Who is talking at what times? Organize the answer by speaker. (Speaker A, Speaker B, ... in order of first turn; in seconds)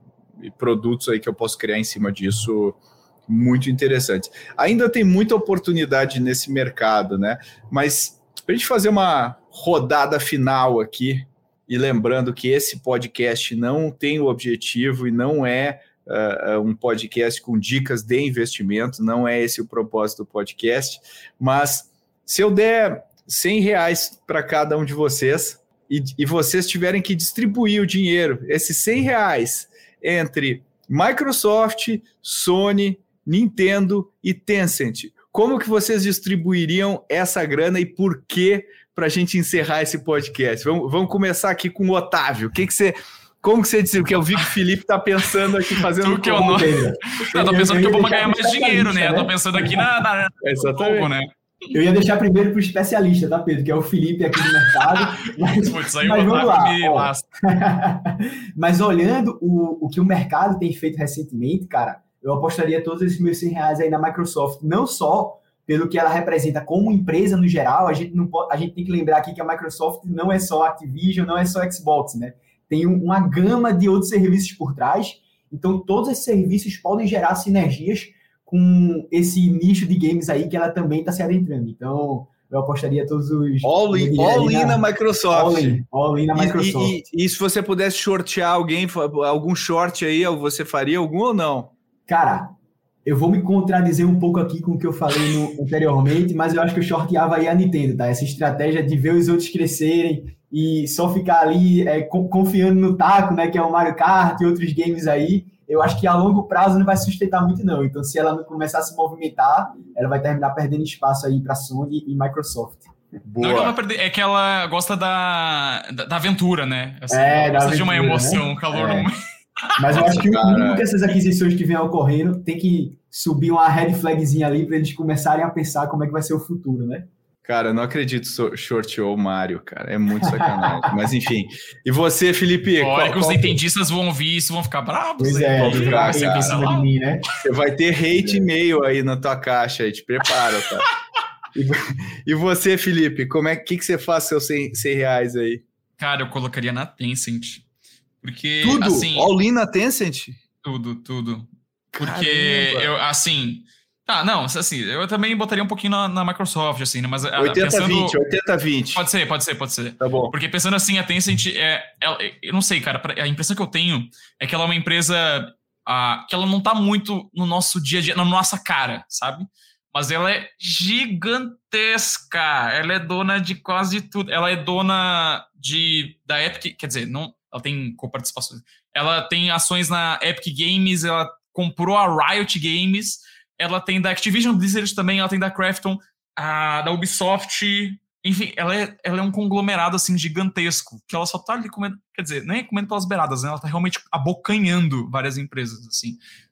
Speaker A: 0.4-46.7, 50.4-51.1, 83.6-85.8, 86.3-91.7, 113.2-113.8, 118.7-119.0, 119.9-120.9, 127.4-133.6, 135.6-136.7, 137.4-140.9, 141.5-145.6, 148.6-150.4, 151.9-152.9, 157.4-159.1, 160.0-160.3
Speaker B: 45.9-51.7, 54.9-57.3, 113.4-119.1, 119.7-120.2, 132.8-136.9, 146.0-147.7, 148.2-149.3, 150.6-158.2, 158.9-196.2
Speaker C: 46.3-49.9, 51.7-87.0, 92.1-92.5, 93.0-112.9, 117.1-118.4, 119.8-127.1, 130.2-131.0, 135.2-137.3, 138.2-138.4